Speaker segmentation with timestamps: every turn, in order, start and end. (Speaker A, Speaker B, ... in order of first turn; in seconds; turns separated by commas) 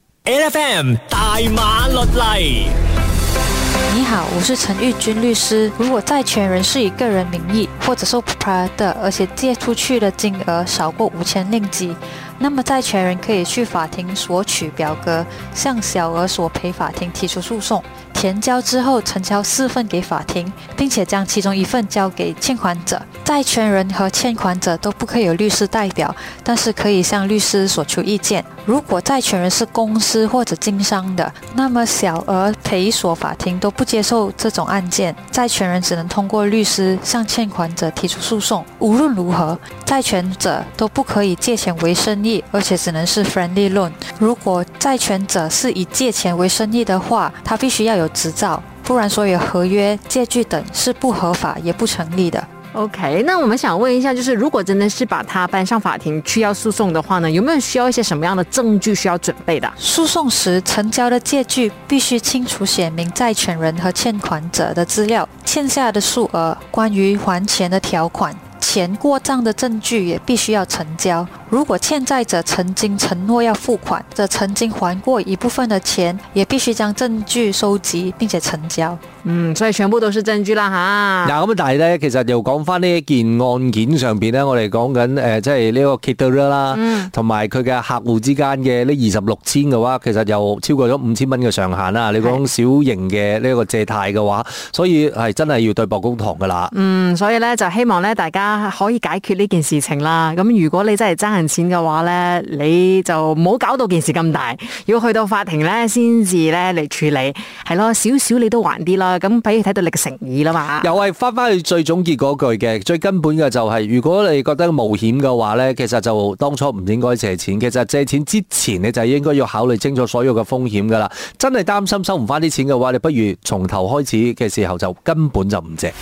Speaker A: 0.3-2.8, Speaker B: 3.9-52.5, Speaker C: 52.7-59.8, Speaker B: 59.8-79.0, Speaker C: 79.2-81.3, Speaker D: 81.2-96.7, Speaker C: 86.7-87.1, Speaker C: 96.7-110.9, Speaker D: 110.8-125.9